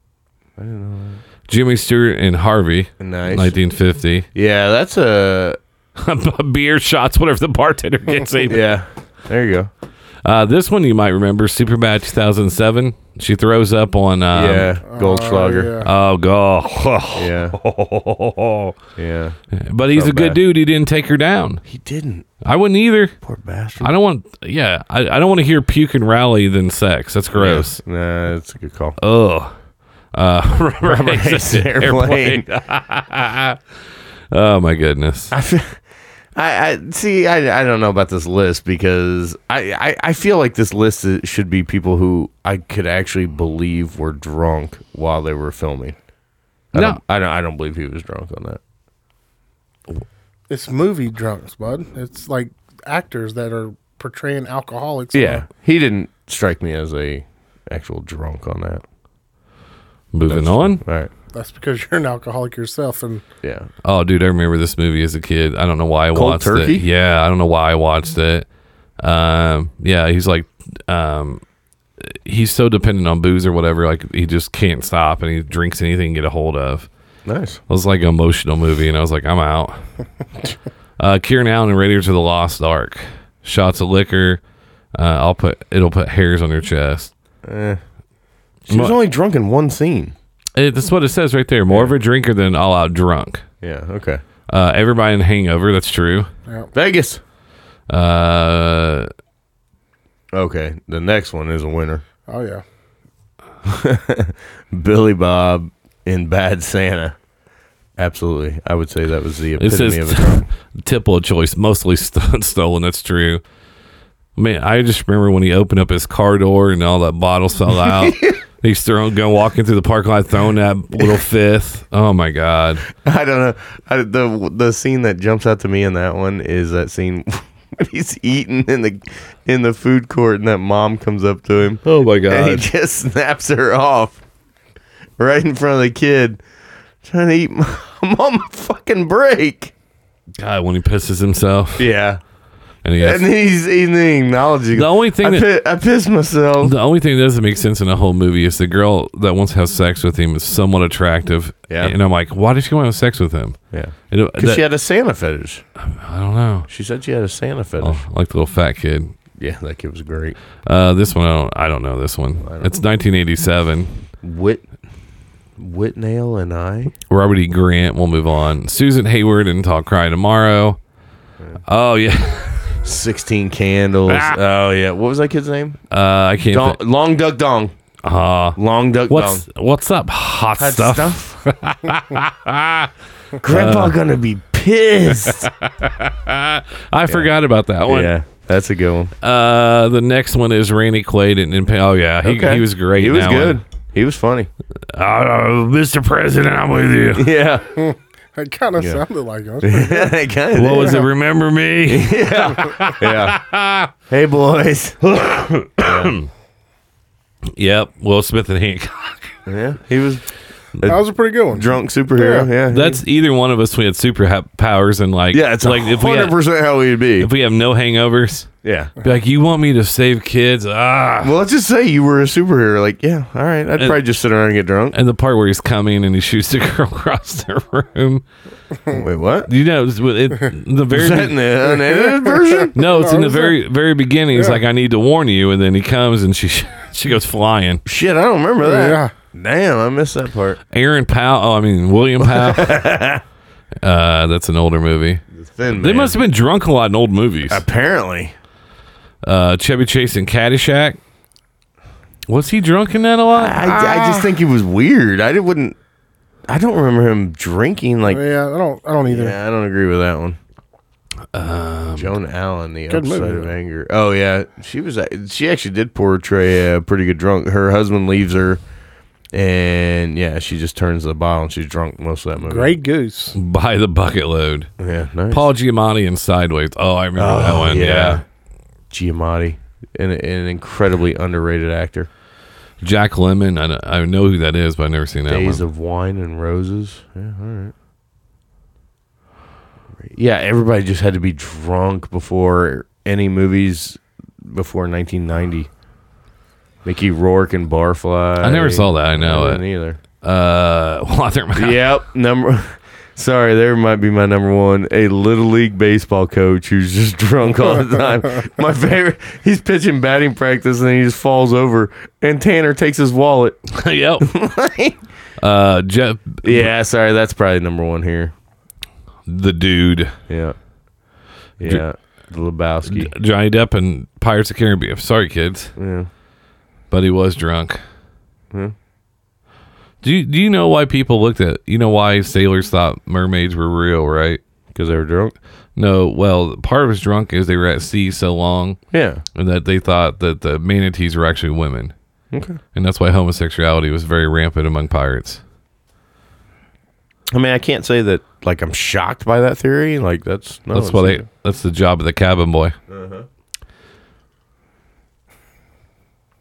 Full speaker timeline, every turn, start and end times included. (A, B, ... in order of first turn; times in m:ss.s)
0:00.6-0:01.2 A
0:01.5-0:04.3 B
0:03.0-0:03.6 A
0:04.3-0:05.6 A
0:06.0-0:08.6 B
0:08.5-0:09.7 A
0:10.2-0:14.7 B
0:14.3-0:15.8 A
0:14.9-0:15.9 C
0:15.8-0:18.8 B
0:17.1-0:17.6 A
0:19.0-0:19.4 A
0:19.6-0:21.6 B
0:19.9-0:20.4 A
0:21.7-0:22.3 A
0:22.4-0:23.2 B
0:23.2-0:23.9 A
0:23.8-0:27.8 B
0:27.4-0:29.0 A
0:29.0-0:29.5 B
0:30.1-0:33.6 B
0:30.8-0:32.5 A
0:34.3-0:35.3 B
0:35.3-0:35.8 A
0:36.4-0:46.0 A
0:46.7-0:48.6 A
0:46.7-0:47.0 B
0:50.5-0:55.4 C
0:55.1-0:58.8 A
1:00.1-1:00.8 B
1:00.2-1:01.1 A
1:01.3-1:03.2 C
1:03.4-1:03.7 A
1:03.8-1:08.5 B
1:06.1-1:06.8 A
1:09.0-1:11.4 B
1:12.0-1:16.9 B
1:17.3-1:17.6 A
1:17.7-1:19.9 B
1:21.0-1:24.4 B
1:24.9-1:27.1 B
1:27.4-1:27.8 A
1:28.7-1:30.2 A
1:28.7-1:29.0 B
1:30.6-1:33.4 B
1:33.6-1:34.2 A
1:34.5-1:36.3 B
1:36.7-1:37.2 A
1:37.9-1:39.1 B
1:40.3-1:42.0 A
1:42.3-1:42.6 C
1:43.6-1:47.2 A
1:48.0-1:50.5 A
1:49.6-1:53.4 B
1:54.4-2:02.9 B
1:57.9-1:58.4 A
2:02.9-2:14.2 A
2:11.8-2:12.7 B
2:15.2-2:16.4 A
2:17.0-2:19.7 A
2:20.4-2:21.9 B
2:21.8-2:22.2 A
2:22.8-2:23.3 B
2:23.0-2:26.8 A
2:24.7-2:25.5 B
2:26.6-2:33.6 B
2:31.7-2:32.0 A
2:33.7-2:35.6 A
2:34.1-2:34.6 B
2:35.8-2:36.7 B
2:36.7-2:38.0 A
2:37.8-2:39.1 B
2:39.4-2:40.4 A
2:40.7-2:44.0 B
2:42.4-2:42.8 A
2:44.2-2:44.7 A
2:45.6-2:46.9 A
2:47.1-2:50.8 B
2:51.7-2:52.8 B
2:52.8-2:55.8 A
2:54.1-2:54.4 B
2:55.9-2:56.8 B
2:56.5-2:57.8 A
2:58.0-2:58.6 B
2:58.6-2:59.4 A
2:59.1-3:02.9 B
3:00.6-3:01.4 A
3:03.4-3:05.5 A
3:03.5-3:04.0 B
3:05.3-3:08.1 B
3:07.9-3:09.1 A
3:09.2-3:13.6 B
3:12.2-3:14.5 A
3:14.9-3:17.3 B
3:17.2-3:17.7 A
3:17.8-3:20.1 C
3:18.8-3:19.0 A
3:19.6-3:21.0 A
3:20.6-3:23.9 B
3:21.9-3:23.4 A
3:24.1-3:25.1 A
3:25.1-3:26.3 B
3:25.8-3:26.2 A
3:27.6-3:29.4 B
3:29.5-3:30.2 A
3:30.8-3:33.0 A
3:30.9-3:32.5 C
3:32.7-3:36.4 B
3:35.3-3:37.3 A
3:37.2-3:41.3 B
3:38.6-3:38.9 A
3:41.2-3:45.0 A
3:44.9-3:48.2 B
3:48.9-3:49.5 A
3:49.5-3:51.4 B
3:50.9-3:52.7 A
3:51.9-3:53.6 C
3:52.8-3:57.8 B
3:54.3-3:54.6 C
3:57.8-4:00.6 A
3:58.6-3:59.1 C
4:00.7-4:02.9 B
4:02.2-4:03.2 A
4:03.8-4:07.6 B
4:05.3-4:06.2 A
4:07.5-4:08.4 A
4:09.2-4:11.0 B
4:12.3-4:14.1 B
4:13.3-4:15.8 A
4:16.5-4:18.2 A
4:18.1-4:19.4 C
4:19.1-4:20.4 A
4:21.3-4:22.1 B
4:22.0-4:28.6 A
4:22.9-4:23.5 C
4:29.3-4:32.8 A
4:32.4-4:33.4 C
4:33.4-4:34.7 B
4:34.8-4:35.5 A
4:35.3-4:38.2 B
4:37.2-4:38.2 A
4:38.9-4:42.1 A
4:42.8-4:45.6 B
4:45.3-4:47.7 A
4:50.0-4:55.7 A
4:56.8-5:00.0 A
4:58.4-4:59.6 B
5:00.2-5:01.8 B
5:01.5-5:13.7 A
5:13.8-5:14.3 B
5:14.2-5:15.0 A
5:15.4-5:16.7 B
5:16.4-5:18.3 A
5:19.3-5:20.1 B
5:20.3-5:20.6 A
5:21.6-5:23.1 A
5:22.8-5:25.7 B
5:25.8-5:26.1 A
5:26.9-5:27.8 B
5:30.0-5:34.4 B
5:34.7-5:35.4 A
5:35.8-5:38.8 B
5:38.9-5:39.2 A
5:39.4-5:41.9 B
5:42.3-5:42.6 A
5:42.7-5:45.4 B
5:47.3-5:51.3 A
5:50.7-5:52.8 B
5:52.9-5:53.3 A